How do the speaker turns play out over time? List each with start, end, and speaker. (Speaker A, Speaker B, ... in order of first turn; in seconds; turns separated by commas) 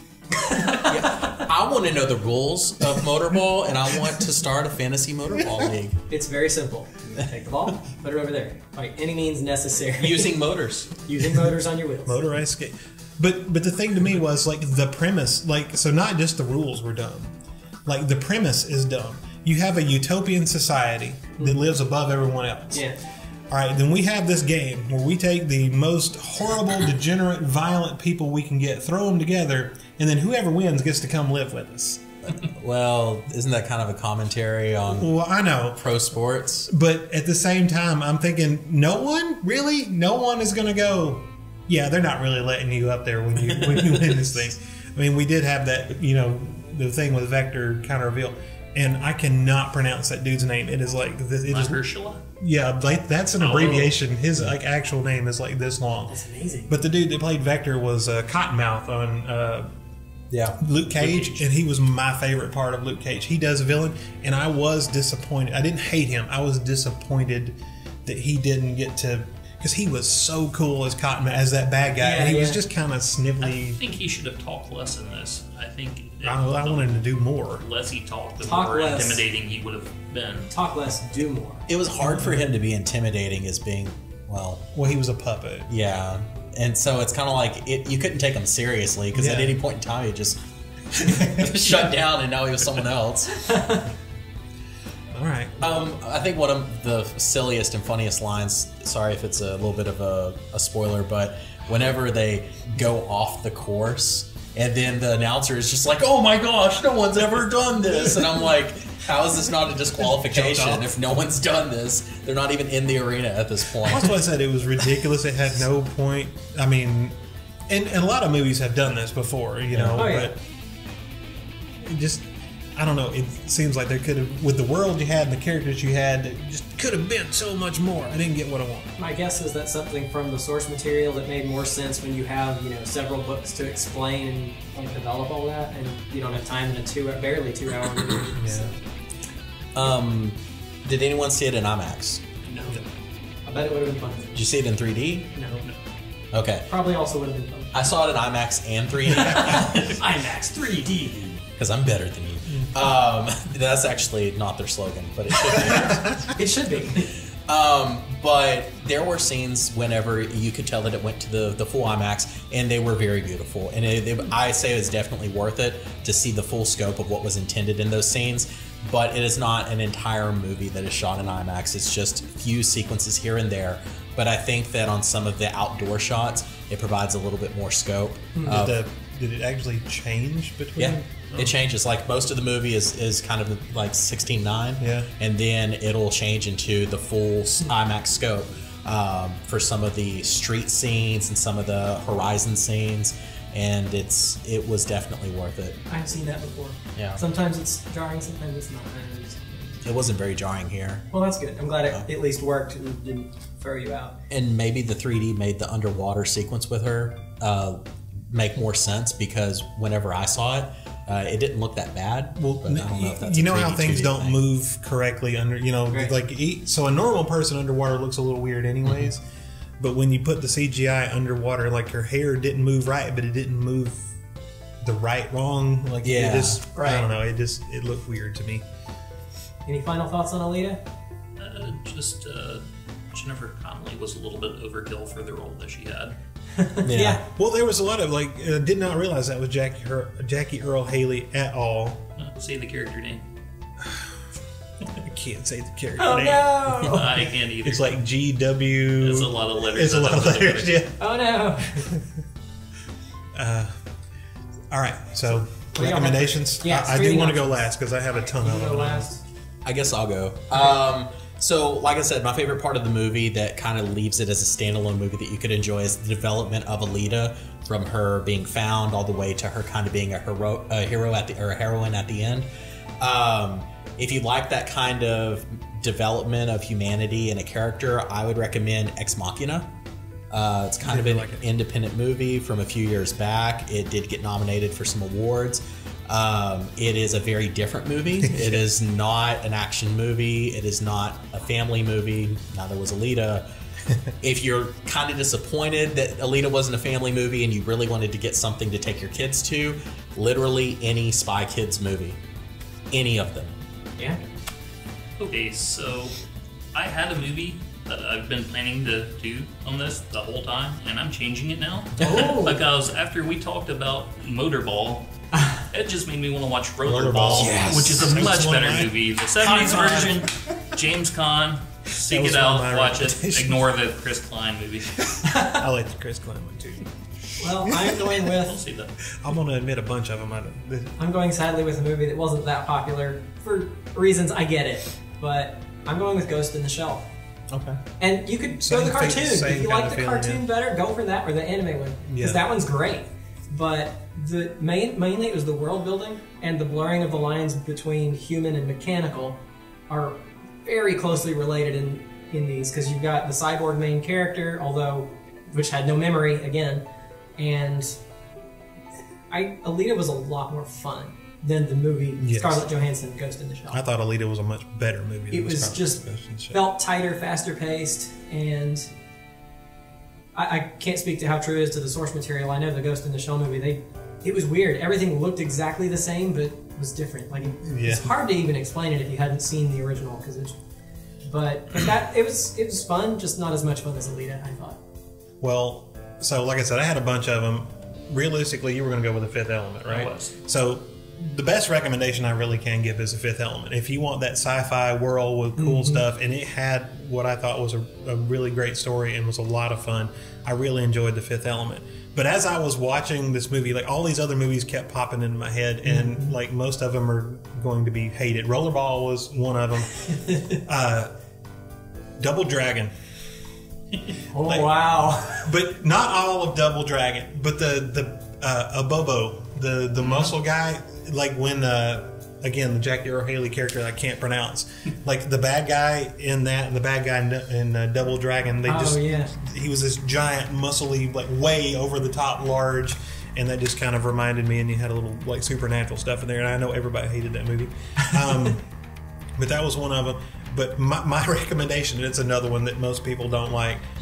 Speaker A: 0.4-1.4, Speaker B: 0.7-6.0, Speaker A: 6.1-10.4, Speaker B: 10.0-10.9, Speaker A: 11.1-12.2, Speaker C: 12.1-17.3, Speaker C: 17.9-22.9, Speaker A: 22.7-23.0, Speaker C: 23.5-32.0, Speaker B: 32.3-35.1, Speaker C: 34.9-35.8, Speaker B: 35.7-36.7, Speaker C: 36.7-51.8, Speaker B: 43.5-44.2, Speaker D: 51.5-52.2, Speaker C: 52.4-56.2, Speaker D: 53.4-54.0, Speaker A: 56.1-56.8, Speaker C: 56.7-59.7, Speaker B: 60.3-60.6, Speaker C: 60.6-73.8, Speaker D: 61.0-61.4, Speaker A: 72.0-72.6, Speaker D: 73.4-80.5, Speaker C: 76.2-77.6, Speaker A: 78.4-79.2, Speaker A: 80.5-81.7, Speaker B: 81.7-84.6, Speaker C: 82.0-82.5, Speaker C: 84.7-85.7, Speaker B: 85.7-90.4, Speaker C: 89.1-89.6, Speaker B: 90.9-93.5, Speaker C: 91.0-91.7, Speaker A: 93.4-93.9, Speaker C: 95.1-95.7, Speaker B: 95.6-114.2, Speaker C: 110.2-110.9, Speaker C: 113.8-117.2, Speaker C: 117.7-120.4, Speaker B: 119.7-120.1, Speaker A: 120.0-120.3, Speaker C: 121.8-128.9, Speaker A: 129.0-138.8, Speaker C: 138.3-138.8, Speaker B: 139.8-142.2, Speaker D: 142.5-142.8, Speaker A: 143.5-144.4, Speaker B: 144.3-145.3, Speaker A: 145.3-145.6, Speaker B: 146.3-146.7, Speaker A: 146.7-147.8, Speaker B: 147.7-150.0, Speaker A: 149.1-151.4, Speaker C: 149.2-149.6, Speaker B: 151.5-156.3, Speaker C: 155.7-156.1, Speaker A: 156.2-157.1, Speaker B: 157.1-178.8, Speaker A: 178.4-178.6, Speaker C: 178.5-181.6, Speaker B: 180.8-195.8, Speaker C: 184.8-185.1, Speaker A: 195.9-199.8, Speaker B: 197.0-197.2, Speaker B: 199.8-201.1, Speaker A: 201.1-204.2, Speaker B: 204.3-214.4, Speaker C: 212.4-219.2, Speaker A: 215.9-216.2, Speaker C: 219.8-224.2, Speaker C: 224.8-228.7, Speaker B: 226.0-226.6, Speaker A: 226.8-227.1, Speaker A: 229.7-230.8, Speaker D: 231.4-236.2, Speaker A: 236.5-237.2, Speaker B: 236.8-237.2, Speaker C: 237.2-242.1, Speaker D: 242.2-243.2, Speaker C: 243.8-244.2, Speaker C: 244.9-246.9, Speaker A: 246.0-247.1, Speaker D: 246.8-248.0, Speaker C: 247.6-251.0, Speaker D: 249.0-250.8, Speaker A: 251.0-251.9, Speaker C: 253.3-253.8, Speaker C: 254.7-259.1, Speaker A: 255.8-257.5, Speaker A: 258.1-259.2, Speaker B: 259.6-272.5, Speaker B: 273.0-279.7, Speaker B: 280.3-293.5, Speaker C: 280.8-281.4, Speaker C: 288.3-288.6, Speaker B: 294.2-302.2, Speaker B: 302.9-303.6, Speaker D: 305.2-306.2, Speaker D: 306.7-315.1, Speaker A: 312.0-312.6, Speaker B: 312.0-312.3, Speaker D: 315.7-325.2, Speaker C: 316.8-320.6, Speaker B: 317.3-318.2, Speaker C: 322.0-323.6, Speaker A: 325.2-325.6, Speaker C: 325.4-326.9, Speaker A: 327.4-328.6, Speaker C: 327.7-328.0, Speaker D: 328.3-329.0, Speaker C: 329.2-330.9, Speaker A: 331.0-337.1, Speaker B: 337.5-337.8, Speaker A: 338.0-356.8, Speaker C: 338.6-340.5, Speaker C: 342.1-342.4, Speaker A: 357.4-358.0, Speaker A: 359.3-363.8, Speaker C: 362.2-362.6, Speaker C: 363.7-366.6, Speaker A: 365.3-368.9, Speaker A: 370.4-380.6, Speaker C: 377.6-378.1, Speaker A: 381.2-384.8, Speaker C: 385.4-411.1, Speaker D: 389.9-390.4, Speaker A: 395.6-396.0, Speaker A: 405.8-406.3, Speaker A: 410.0-410.6, Speaker C: 412.2-412.9, Speaker A: 414.3-415.5, Speaker C: 414.4-414.7, Speaker C: 415.4-438.6, Speaker A: 428.7-429.3, Speaker A: 438.0-438.4, Speaker C: 439.4-443.8